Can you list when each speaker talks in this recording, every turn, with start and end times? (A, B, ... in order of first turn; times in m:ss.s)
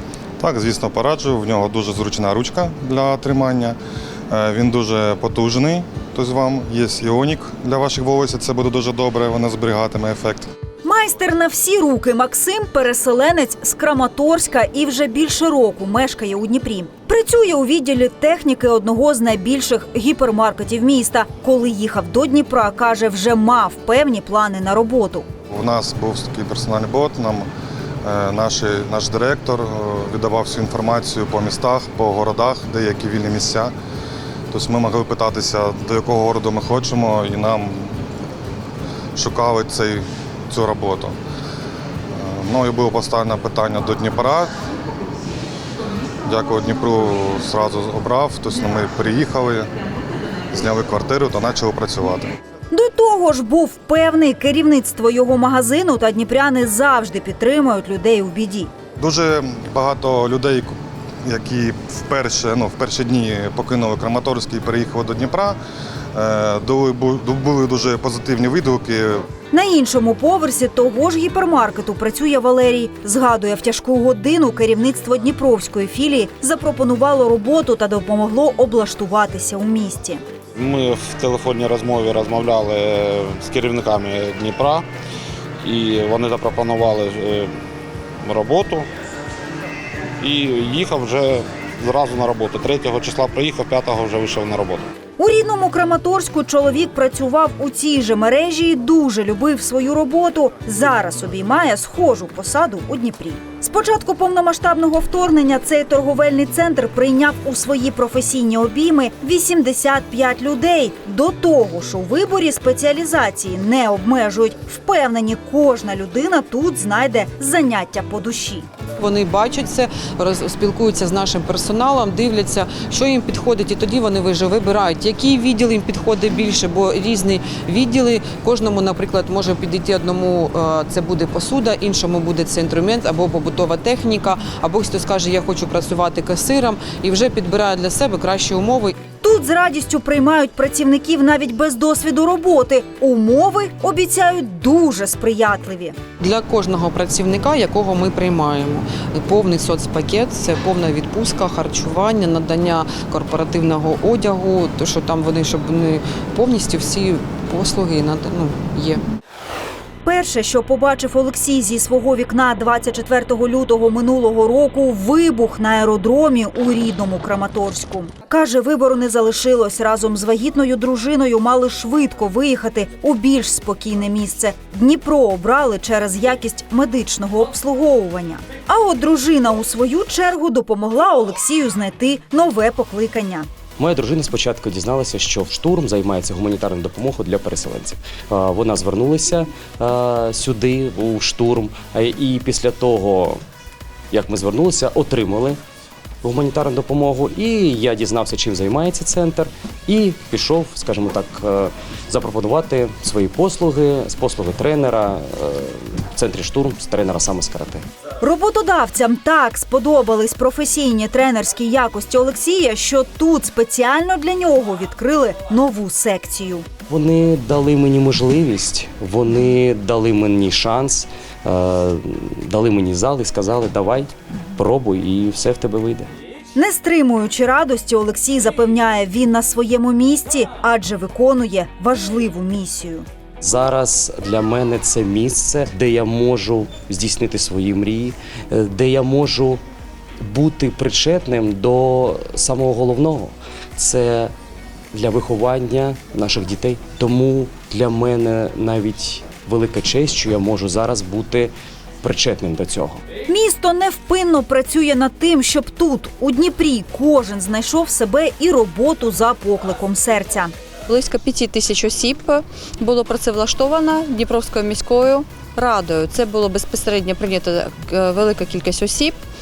0:00.4-0:03.8 A
0:04.3-0:10.5 A
0:10.8-0:25.3 B
0:25.5-0:27.5 A
0:28.0-0:33.7 A
0:34.5-0:38.0 A
0:39.2-0:41.2 A
0:42.1-0:44.6 A
0:46.2-0:49.7 A
0:50.5-0:52.3 A
0:52.7-0:58.7 B
0:59.0-1:05.6 A
1:06.1-1:09.2 A
1:09.5-1:20.2 B
1:20.6-1:24.8 C
1:25.6-1:27.5 C
1:28.2-1:28.9 C
1:30.2-1:34.9 C
1:35.2-1:58.7 B
1:59.0-2:18.9 D
2:19.2-2:26.0 B
2:26.2-2:39.1 D
2:40.0-3:03.5 B
3:03.8-3:13.4 E
3:14.1-3:15.6 E
3:16.2-3:27.8 E
3:28.2-3:36.6 B
3:36.9-3:46.1 E
3:46.5-3:53.0 B
3:53.4-3:59.6 E
4:00.2-4:04.3 E
4:04.9-4:13.0 E
4:13.3-4:20.5 B
4:20.9-4:29.2 F